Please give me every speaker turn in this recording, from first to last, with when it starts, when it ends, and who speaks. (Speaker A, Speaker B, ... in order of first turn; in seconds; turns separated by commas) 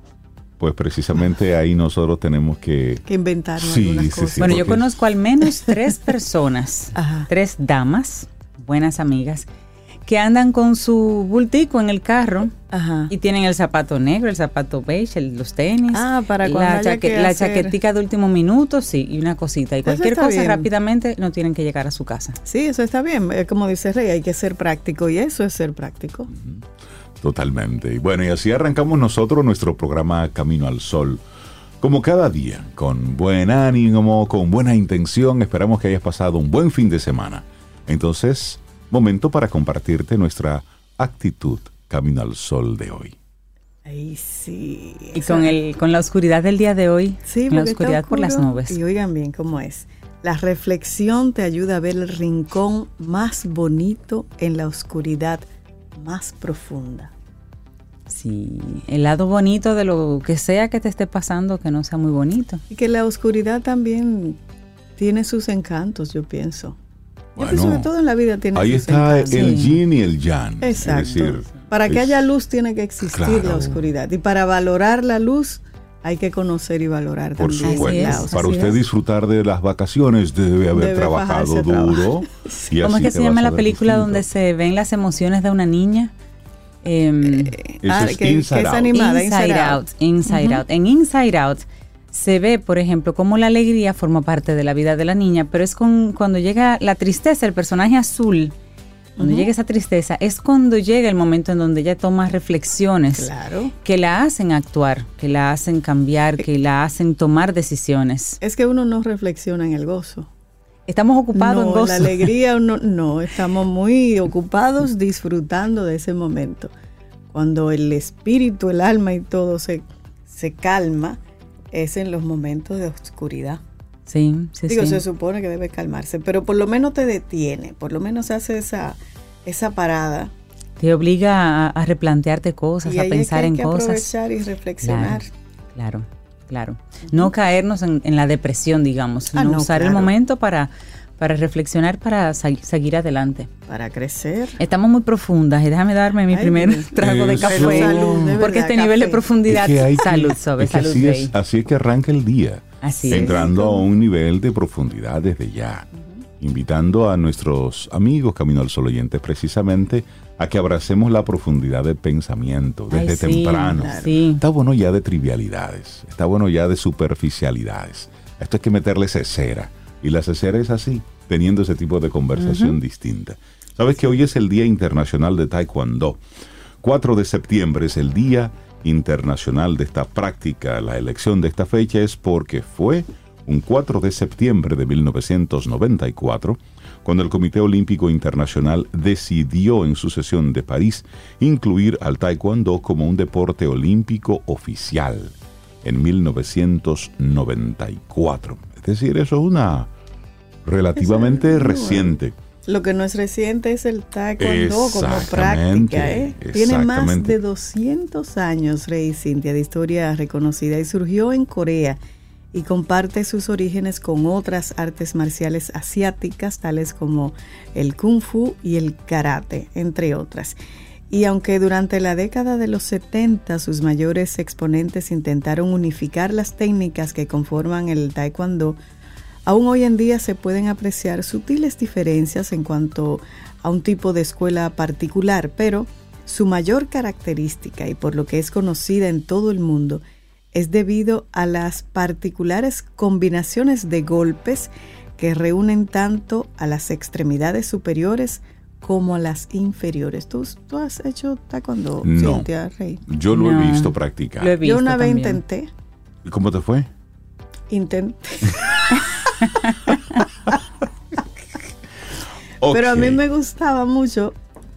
Speaker A: 0.6-3.0, Speaker B: 3.0-4.8, Speaker A: 3.6-4.9, Speaker C: 4.4-9.5, Speaker B: 6.9-7.3, Speaker C: 10.1-12.5, Speaker B: 12.7-13.1, Speaker C: 13.1-22.4, Speaker B: 15.9-17.8, Speaker B: 19.8-20.7, Speaker B: 22.4-26.3, Speaker A: 27.2-31.2, Speaker A: 31.8-43.1, Speaker B: 43.9-45.5, Speaker C: 45.1-48.8, Speaker B: 47.2-57.1, Speaker C: 58.1-62.6, Speaker B: 62.7-64.4, Speaker B: 65.0-66.8, Speaker A: 67.4-67.9, Speaker B: 67.4-69.6, Speaker A: 68.5-72.2, Speaker C: 69.3-69.8, Speaker B: 70.6-78.6, Speaker A: 73.1-73.8, Speaker A: 77.4-84.2, Speaker C: 77.7-78.8, Speaker B: 80.7-82.6, Speaker C: 82.8-86.1, Speaker C: 86.8-87.6, Speaker B: 87.2-90.6, Speaker A: 87.8-88.9, Speaker C: 88.9-98.5, Speaker B: 99.2-99.5, Speaker C: 99.2-103.3, Speaker B: 103.2-103.7, Speaker C: 103.8-108.4, Speaker B: 108.4-110.3, Speaker C: 110.9-112.2, Speaker B: 111.3-116.7, Speaker B: 117.3-121.2, Speaker B: 121.7-123.6, Speaker C: 124.1-125.0, Speaker B: 124.7-130.3, Speaker C: 130.8-134.1, Speaker B: 132.8-135.3, Speaker C: 134.8-135.2, Speaker C: 135.7-143.5, Speaker B: 139.3-140.1, Speaker B: 143.7-144.6, Speaker C: 144.6-151.3, Speaker B: 146.3-149.3, Speaker A: 147.0-148.4, Speaker A: 149.5-155.9, Speaker C: 152.8-153.5, Speaker B: 153.1-153.8, Speaker A: 156.4-176.2, Speaker C: 162.9-164.4, Speaker B: 163.7-164.1, Speaker C: 172.4-172.8, Speaker A: 176.8-199.9, Speaker A: 200.6-202.3, Speaker B: 201.0-212.0, Speaker A: 204.4-207.4, Speaker B: 212.5-220.6, Speaker B: 221.1-228.8, Speaker B: 229.4-240.0, Speaker B: 240.5-253.0, Speaker A: 252.0-252.5, Speaker A: 253.1-254.6, Speaker C: 253.3-255.4, Speaker B: 254.6-255.7, Speaker A: 256.2-256.9, Speaker B: 257.7-258.9, Speaker C: 259.4-259.8, Speaker A: 262.6-263.2, Speaker B: 262.7-264.4